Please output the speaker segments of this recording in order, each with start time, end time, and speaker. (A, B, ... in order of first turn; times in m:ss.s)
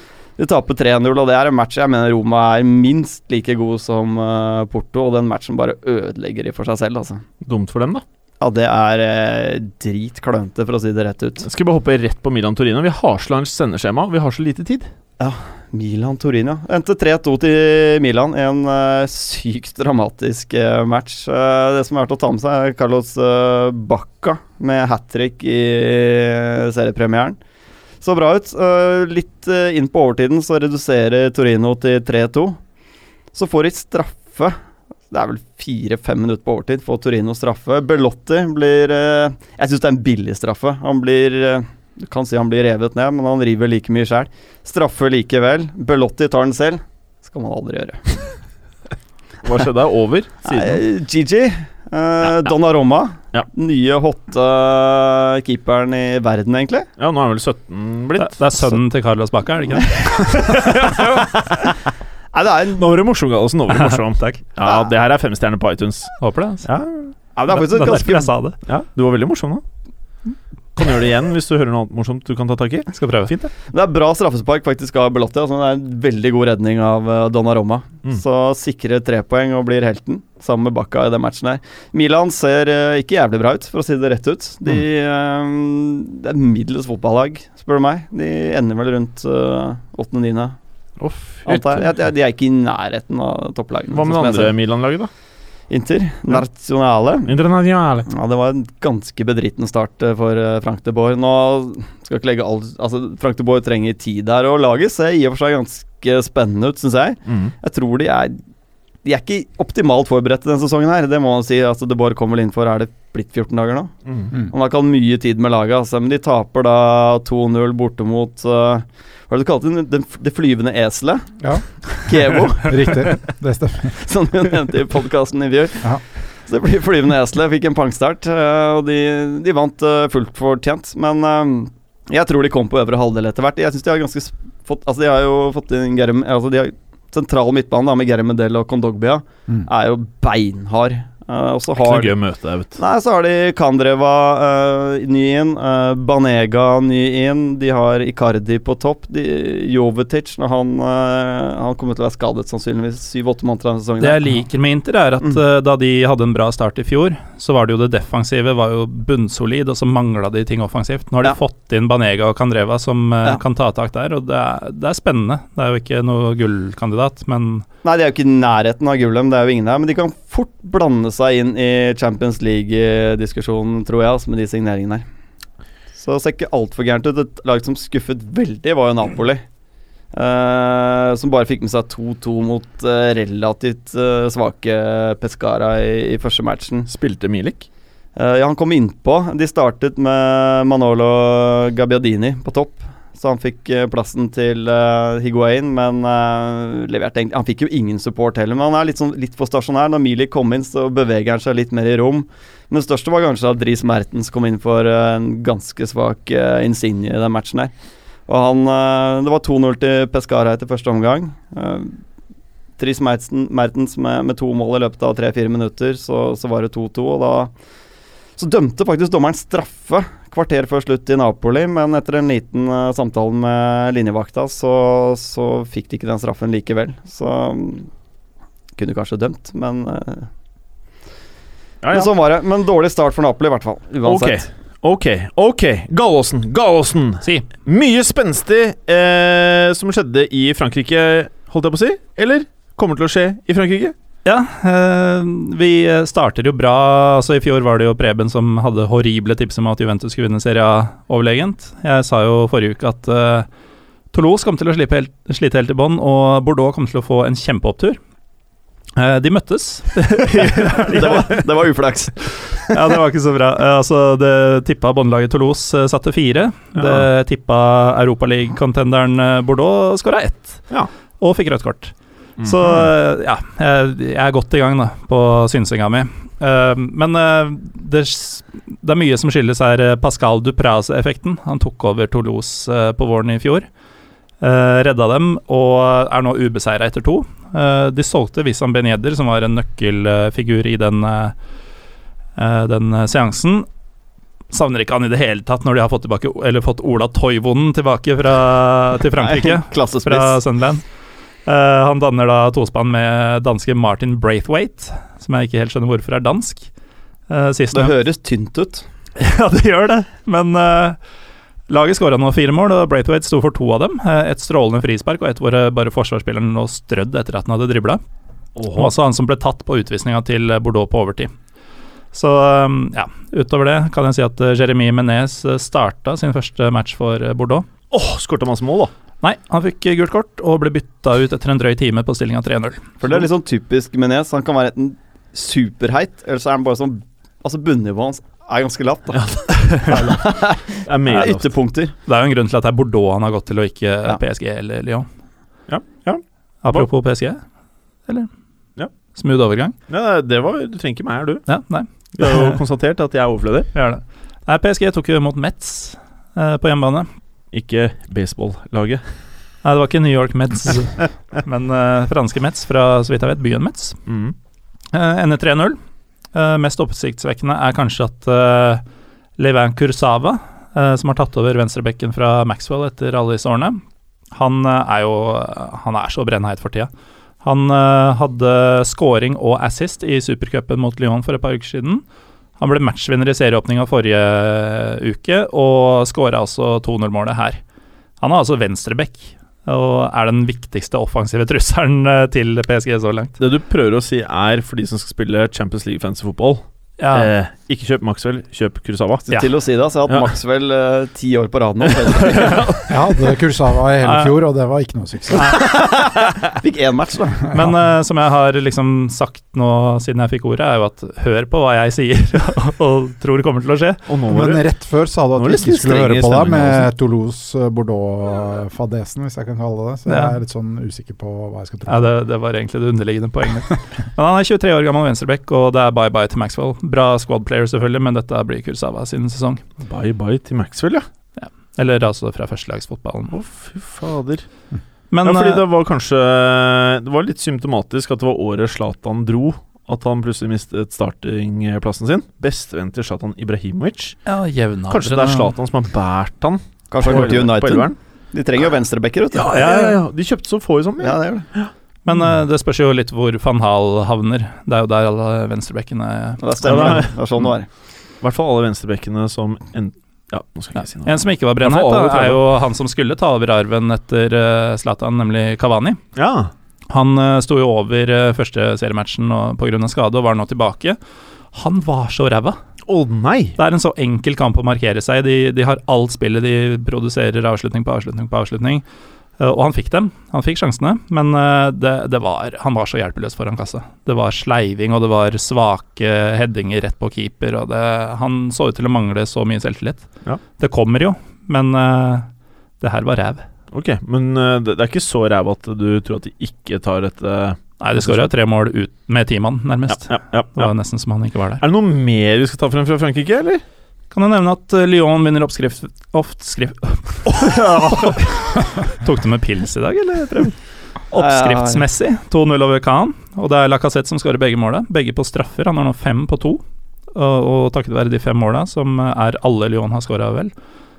0:00.4-0:07.2 A
0:07.4-0:08.0 B
0:08.4-0:11.4 A
0:11.4-0:14.9 B
0:15.2-0:27.4 A
0:28.0-0:32.6 A
0:33.3-0:34.6 A
0:35.1-0:48.2 A
0:49.4-0:50.8 B
0:50.5-0:56.9 A
0:57.0-0:58.8 B
0:58.2-1:00.0 C
0:59.9-1:01.3 A
1:00.2-1:01.7 B
1:02.3-1:02.8 A
1:02.7-1:07.1 B
1:03.7-1:04.4 C
1:06.2-1:06.6 C
1:07.4-1:08.3 A
1:07.5-1:08.6 C
1:08.7-1:09.6 B
1:10.8-1:13.5 B
1:12.9-1:13.4 C
1:13.7-1:30.6 A
1:31.0-1:31.9 B
1:31.5-1:34.5 A
1:33.9-1:35.1 B
1:35.7-1:37.4 A
1:37.3-1:38.1 B
1:38.1-1:48.4 A
1:47.3-1:47.5 B
1:49.0-2:01.3 A
1:54.1-1:54.3 B
2:01.9-2:03.2 A
2:02.6-2:04.0 D
2:03.9-2:22.2 A
2:21.8-2:22.8 B
2:22.8-2:34.3 A
2:34.0-2:47.7 C
2:47.8-2:55.0 A
2:56.0-2:59.4 A
3:00.1-3:06.9 A
3:06.9-3:07.7 B
3:08.2-3:27.7 A
3:28.3-3:32.0 A
3:32.8-3:37.5 A
3:38.4-3:47.9 A
3:48.8-3:50.3 A
3:51.8-3:52.1 B
3:51.9-3:54.4 A
3:54.0-4:04.0 B
4:04.2-4:13.5 C
4:14.1-4:18.0 C
4:19.0-4:21.4 C
4:20.6-4:22.8 A
4:22.7-4:30.6 C
4:26.8-4:27.0 B
4:31.2-4:43.7 C
4:32.4-4:32.9 B
4:44.4-4:51.4 C
4:52.4-4:53.7 C
4:54.5-5:00.8 C
4:59.2-5:00.4 A
5:01.5-5:06.7 C
5:07.3-5:07.9 C
5:07.7-5:08.8 A
5:09.2-5:11.0 C
5:11.7-5:18.0 C
5:18.6-5:18.9 B
5:18.7-5:21.3 C
5:22.1-5:27.7 C
5:27.9-5:28.9 B
5:29.2-5:33.2 C
5:33.0-5:39.3 A
5:39.1-5:41.5 B
5:39.8-5:41.9 A
5:42.1-5:45.1 C
5:45.7-5:46.9 B
5:46.6-5:47.4 C
5:49.2-5:49.8 C
5:49.9-5:51.5 B
5:51.5-5:52.6 C
5:52.2-5:53.7 B
5:53.7-5:57.1 C
5:57.5-5:59.0 B
5:59.6-6:04.0 C
6:04.1-6:04.4 B
6:04.9-6:05.8 C
6:06.3-6:08.8 C
6:09.4-6:13.8 C
6:14.3-6:16.9 C
6:17.4-6:22.0 C
6:22.6-6:27.6 C
6:28.2-6:33.4 C
6:33.4-6:39.3 B
6:37.0-6:37.3 C
6:39.3-6:42.7 A
6:42.2-6:42.8 B
6:42.9-6:45.6 D
6:44.0-6:44.3 C
6:45.4-6:47.5 A
6:47.5-6:54.0 C
6:54.1-6:54.7 B
6:54.3-7:02.1 D
6:55.4-6:56.9 B
7:00.1-7:00.4 C
7:01.9-7:09.6 C
7:09.8-7:11.0 B
7:11.4-7:13.4 C
7:13.3-7:14.5 B
7:15.1-7:15.6 C
7:15.2-7:24.2 B
7:24.3-7:25.5 C
7:24.9-7:27.9 B
7:26.9-7:29.9 A
7:29.3-7:31.7 B
7:29.5-7:29.9 C
7:31.0-7:31.5 A
7:32.1-7:37.0 C
7:36.4-7:37.7 A
7:36.6-7:37.4 B
7:38.2-7:42.4 B
7:40.8-7:46.0 C
7:46.2-7:46.5 B
7:46.9-7:51.0 C
7:51.5-7:52.6 C
7:52.9-7:53.6 B
7:53.6-7:58.8 C
7:59.4-8:10.1 C
8:10.6-8:12.3 C
8:12.8-8:13.4 C
8:13.7-8:18.3 B
8:17.8-8:21.6 C
8:19.9-8:20.7 B
8:21.6-8:23.6 B
8:24.1-8:30.6 C
8:27.4-8:28.2 B
8:31.1-8:36.6 C
8:31.2-8:31.8 A
8:37.1-8:40.5 C